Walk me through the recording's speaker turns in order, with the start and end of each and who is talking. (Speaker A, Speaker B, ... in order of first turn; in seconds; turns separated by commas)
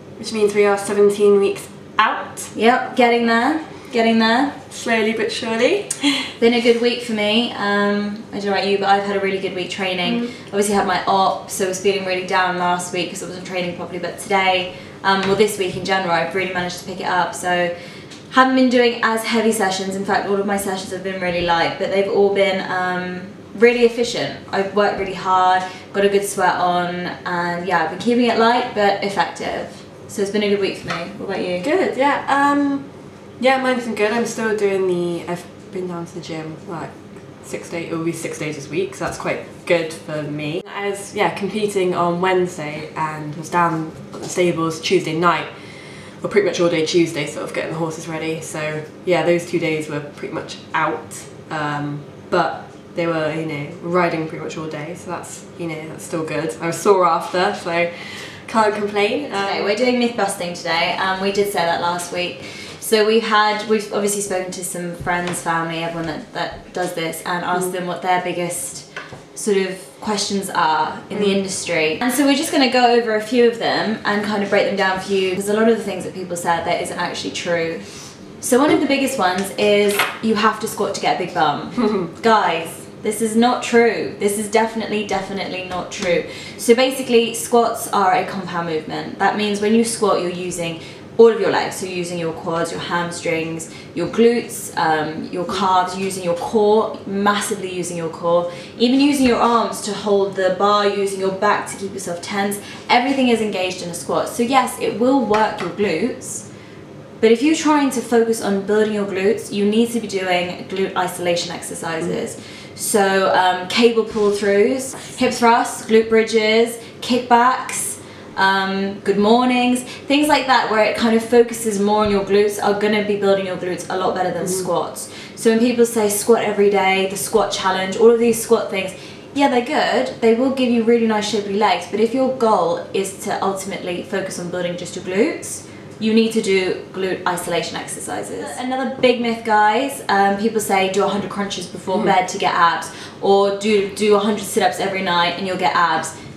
Speaker A: 0.2-3.3, Speaker B: 2.5-4.6, Speaker A: 4.7-6.3, Speaker B: 6.4-17.7, Speaker B: 18.3-31.7, Speaker A: 31.6-59.8, Speaker B: 59.3-106.5, Speaker A: 71.1-71.4, Speaker B: 107.2-146.1, Speaker A: 124.4-124.7